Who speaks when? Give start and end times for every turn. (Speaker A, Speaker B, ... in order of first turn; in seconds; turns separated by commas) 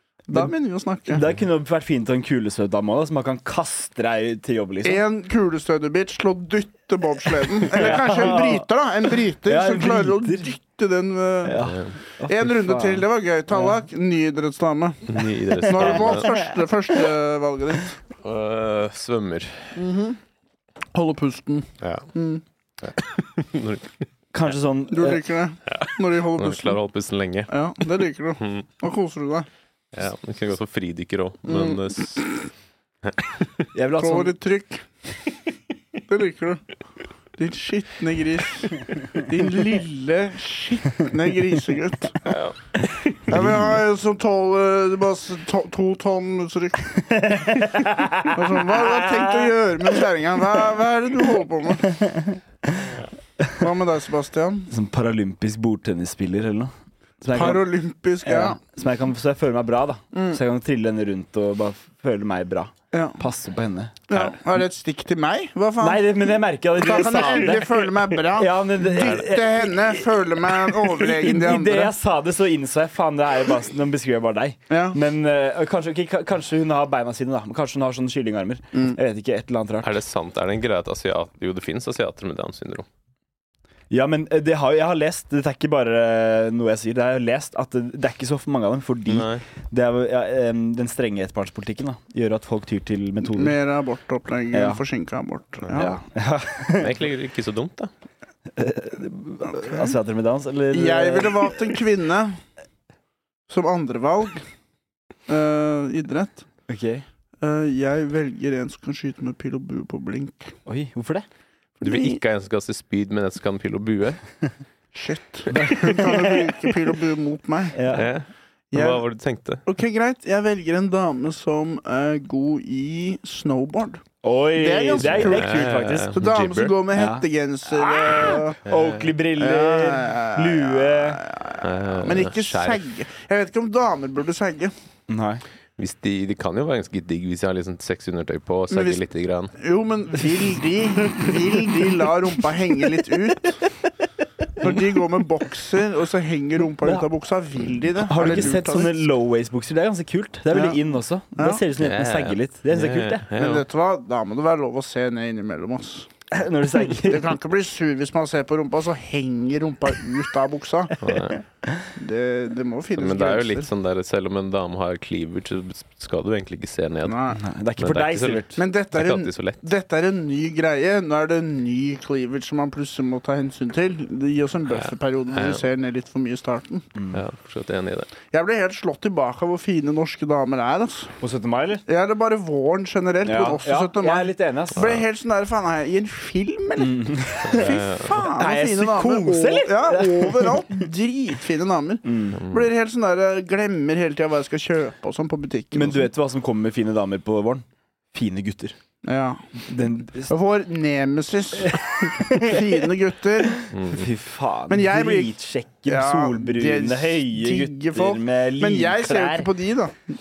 Speaker A: 0.3-1.2, Speaker B: 1.1-5.0, Speaker A: 4.8-11.7, Speaker B: 7.7-8.7, Speaker B: 9.4-10.6, Speaker B: 11.4-13.1, Speaker C: 11.6-11.9, Speaker A: 12.2-18.0, Speaker C: 15.1-16.4, Speaker B: 15.8-16.5, Speaker C: 18.2-19.9, Speaker A: 19.8-20.2, Speaker A: 20.9-22.4, Speaker C: 21.8-22.1, Speaker C: 22.8-24.1, Speaker B: 24.3-25.2, Speaker A: 24.9-26.8, Speaker C: 25.7-27.5, Speaker A: 27.5-29.5, Speaker C: 28.4-28.7, Speaker C: 29.9-32.4, Speaker A: 31.5-32.3, Speaker C: 33.1-33.5, Speaker B: 33.7-34.3, Speaker A: 34.0-34.9, Speaker A: 36.1-36.6, Speaker A: 37.4-42.3, Speaker C: 42.2-43.2, Speaker A: 43.3-47.1, Speaker B: 43.3-43.8, Speaker B: 47.1-49.4, Speaker A: 48.3-51.9, Speaker B: 51.8-53.6, Speaker A: 53.6-54.7, Speaker B: 54.7-57.7, Speaker A: 57.3-58.6, Speaker B: 58.2-64.0, Speaker A: 60.1-60.4, Speaker A: 62.9-63.2, Speaker A: 64.1-71.9, Speaker B: 65.8-79.9, Speaker A: 74.7-75.0, Speaker A: 78.7-79.0, Speaker C: 79.8-82.9, Speaker B: 83.9-93.5, Speaker C: 89.1-89.5, Speaker A: 93.3-96.0, Speaker B: 94.5-94.8, Speaker B: 95.7-96.9, Speaker C: 96.7-97.9, Speaker B: 98.5-101.8, Speaker A: 99.5-100.0, Speaker A: 100.7-102.4, Speaker A: 103.5-104.4, Speaker A: 105.3-106.5, Speaker B: 106.7-107.0, Speaker A: 107.4-110.5, Speaker B: 110.7-111.3, Speaker A: 111.8-112.2, Speaker C: 111.8-114.2, Speaker A: 114.9-118.0, Speaker B: 115.5-116.5, Speaker C: 115.6-116.1, Speaker B: 117.7-118.1, Speaker C: 117.9-119.7, Speaker A: 118.7-119.0, Speaker A: 119.7-124.0, Speaker B: 124.2-126.2, Speaker A: 124.5-128.6, Speaker C: 125.1-126.8, Speaker B: 126.9-131.2, Speaker C: 128.7-129.2, Speaker A: 129.4-134.7, Speaker C: 131.6-132.8, Speaker B: 135.1-135.4, Speaker C: 135.8-139.5, Speaker A: 138.7-139.0, Speaker A: 139.6-143.7, Speaker A: 144.6-149.1, Speaker B: 144.6-144.9, Speaker B: 148.0-153.2, Speaker A: 150.5-150.8, Speaker A: 151.3-151.6, Speaker C: 151.8-153.6, Speaker A: 153.4-156.1, Speaker B: 156.3-157.3, Speaker A: 157.0-161.0, Speaker C: 161.0-161.4, Speaker B: 161.6-161.9, Speaker A: 162.0-163.7, Speaker C: 163.0-167.3, Speaker A: 167.0-167.4, Speaker B: 167.3-168.6, Speaker C: 167.8-169.6, Speaker A: 168.6-176.9, Speaker C: 174.7-175.6, Speaker B: 177.0-177.2, Speaker C: 177.1-178.1, Speaker A: 178.3-181.2, Speaker B: 181.2-181.8, Speaker A: 181.9-196.1, Speaker B: 183.2-184.9, Speaker B: 186.8-190.8, Speaker C: 187.5-188.2, Speaker B: 192.0-192.4, Speaker C: 192.4-192.7, Speaker B: 195.7-198.8, Speaker A: 199.0-199.6, Speaker B: 199.6-200.3, Speaker A: 200.2-203.6, Speaker B: 201.6-202.7, Speaker B: 203.6-209.5, Speaker C: 203.7-204.1, Speaker A: 204.7-209.9